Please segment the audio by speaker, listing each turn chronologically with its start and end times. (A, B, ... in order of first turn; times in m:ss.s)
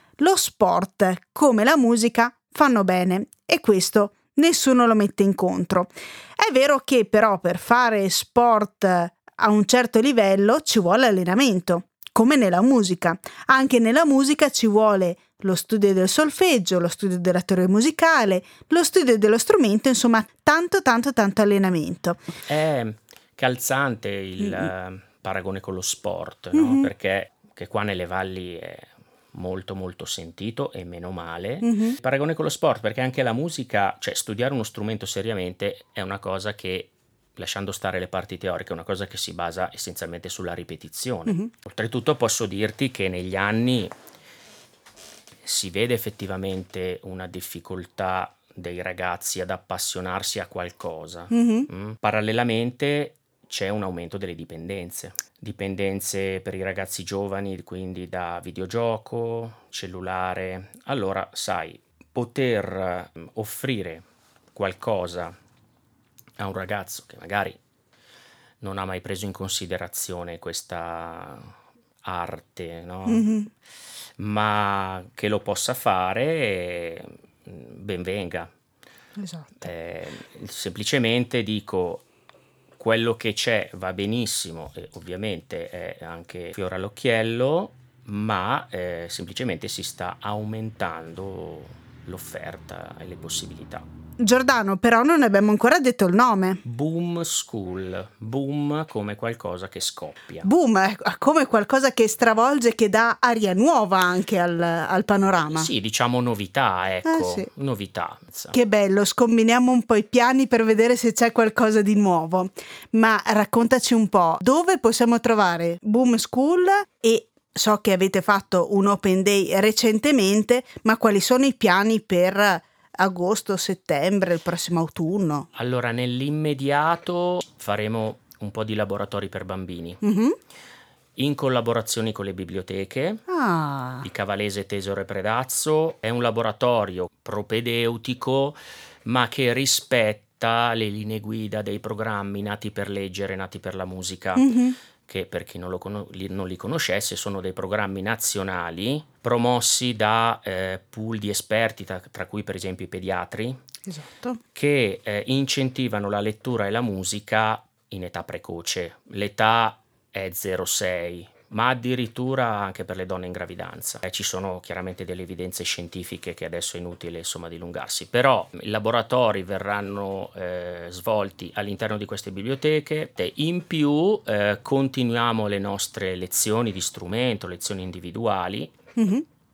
0:00.2-0:22.2 A
0:22.5-0:43.9 B
0:26.5-0:26.9 A
0:31.6-0:32.0 A
0:45.4-1:04.0 B
0:51.3-0:51.7 A
1:04.5-1:05.3 B
1:06.4-1:07.6 B
1:08.6-1:11.5 B
1:12.0-1:13.3 B
1:13.0-1:13.5 A
1:14.2-1:18.5 B
1:19.2-1:19.7 A
1:19.6-1:22.0 B
1:22.8-1:33.8 B
1:34.2-1:36.6 A
1:36.6-1:40.5 B
1:40.4-1:45.7 A
1:45.5-1:48.6 B
1:47.0-1:47.5 A
1:48.5-2:05.5 A
2:05.5-2:10.0 B
2:10.0-2:10.4 A
2:11.2-2:13.2 B
2:13.3-2:14.0 A
2:14.0-2:24.5 B
2:24.3-2:24.8 A
2:25.1-2:33.6 B
2:33.8-2:34.4 A
2:34.5-2:58.7 B
2:59.0-2:59.2 A